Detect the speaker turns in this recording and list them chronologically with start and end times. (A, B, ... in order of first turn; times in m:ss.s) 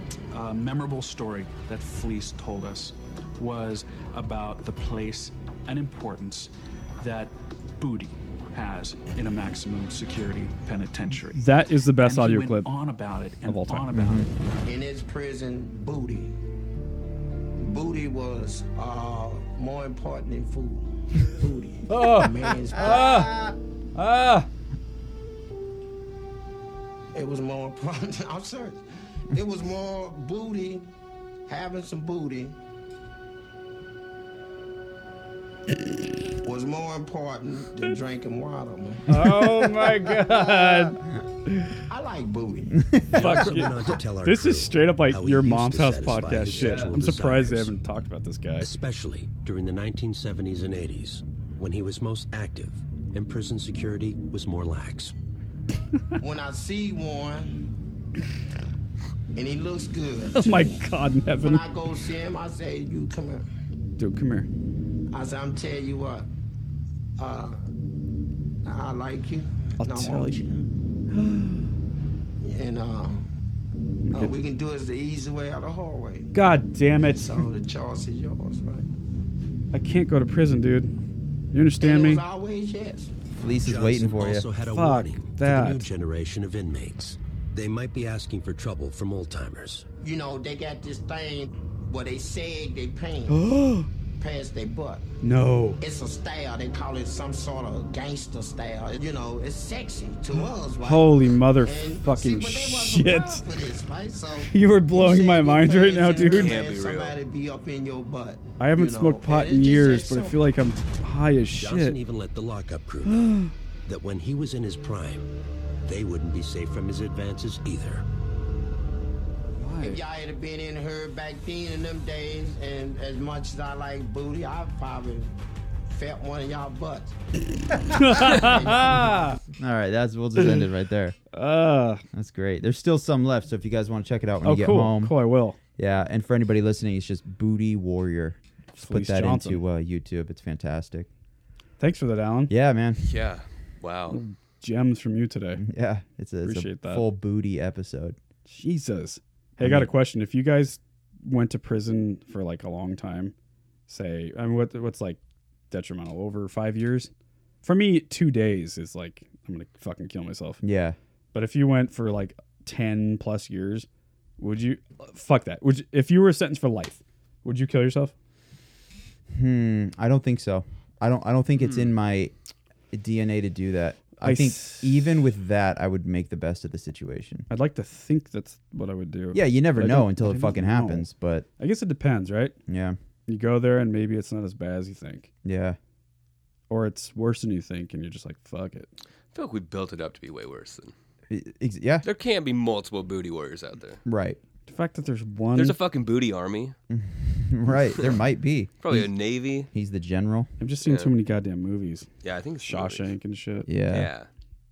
0:00.3-0:14.3 A
0:11.3-0:12.7 B
0:13.5-0:14.2 B
0:13.9-0:14.3 C
0:14.6-0:16.4 D
0:17.6-0:23.5 D
0:21.9-0:23.3 B
0:24.0-0:24.5 B
0:27.1-0:30.9 D
0:31.5-0:32.6 D
0:36.4-0:40.8 D
0:39.1-0:41.7 B
0:41.9-0:42.8 D
0:42.8-0:43.3 C
0:43.1-0:48.7 B
0:43.1-0:47.7 E
0:48.6-0:55.1 E
0:56.2-0:57.7 D
0:59.3-1:00.8 D
1:00.3-1:01.6 B
1:01.4-1:03.4 D
1:04.0-1:04.5 B
1:05.1-1:06.2 D
1:07.2-1:07.6 D
1:08.6-1:10.6 D
1:09.8-1:10.4 B
1:11.1-1:11.7 B
1:12.4-1:13.3 D
1:14.1-1:14.3 B
1:14.1-1:16.3 D
1:16.3-1:17.4 B
1:17.0-1:18.9 D
1:19.7-1:20.9 B
1:21.5-1:22.2 B
1:21.8-1:23.1 D
1:23.3-1:24.5 C
1:23.6-1:29.8 E
1:24.6-1:25.8 B
1:30.0-1:33.4 D
1:33.3-1:33.9 B
1:34.2-1:35.0 D
1:35.2-1:35.8 B
1:35.8-1:50.4 D
1:40.8-1:43.4 B
1:44.4-1:46.6 B
1:46.2-1:47.1 F
1:48.6-1:52.0 B
1:51.6-1:53.1 E
1:53.0-1:53.5 B
1:53.8-1:55.3 E
1:55.8-1:58.0 E
1:59.6-2:00.0 B
1:59.8-2:05.3 D
2:05.9-2:07.1 D
2:07.9-2:09.4 B
2:08.0-2:09.3 D
2:09.5-2:11.2 C
2:10.4-2:10.6 B
2:11.3-2:12.0 B
2:12.1-2:15.1 C
2:14.4-2:15.6 B
2:15.8-2:21.1 C
2:18.7-2:19.6 B
2:21.8-2:22.5 B
2:22.5-2:23.0 C
2:23.0-2:24.2 F
2:24.1-2:25.6 B
2:25.6-2:28.2 C
2:26.4-2:27.0 B
2:28.5-2:33.3 B
2:29.6-2:29.9 C
2:33.9-2:35.2 B
2:35.7-2:37.1 B
2:37.6-2:40.6 B
2:40.6-2:41.0 C
2:41.3-2:43.9 B
2:44.4-2:48.1 B
2:49.3-2:52.3 C
2:52.9-2:57.5 C
2:54.2-2:55.1 B
2:57.5-3:02.6 B
2:59.3-3:01.4 C
3:02.7-3:03.0 C
3:03.3-3:05.3 B
3:05.4-3:05.8 C
3:06.7-3:08.9 B
3:09.3-3:10.9 F
3:11.3-3:12.0 C
3:12.0-3:14.0 F
3:14.0-3:14.4 C
3:14.7-3:15.8 B
3:15.5-3:16.7 F
3:16.9-3:19.1 C
3:17.7-3:18.2 F
3:18.8-3:19.7 F
3:19.7-3:20.5 C
3:20.6-3:22.1 B
3:20.8-3:21.1 F
3:22.2-3:23.1 F
3:22.6-3:23.7 B
3:23.6-3:24.1 C
3:23.9-3:24.3 F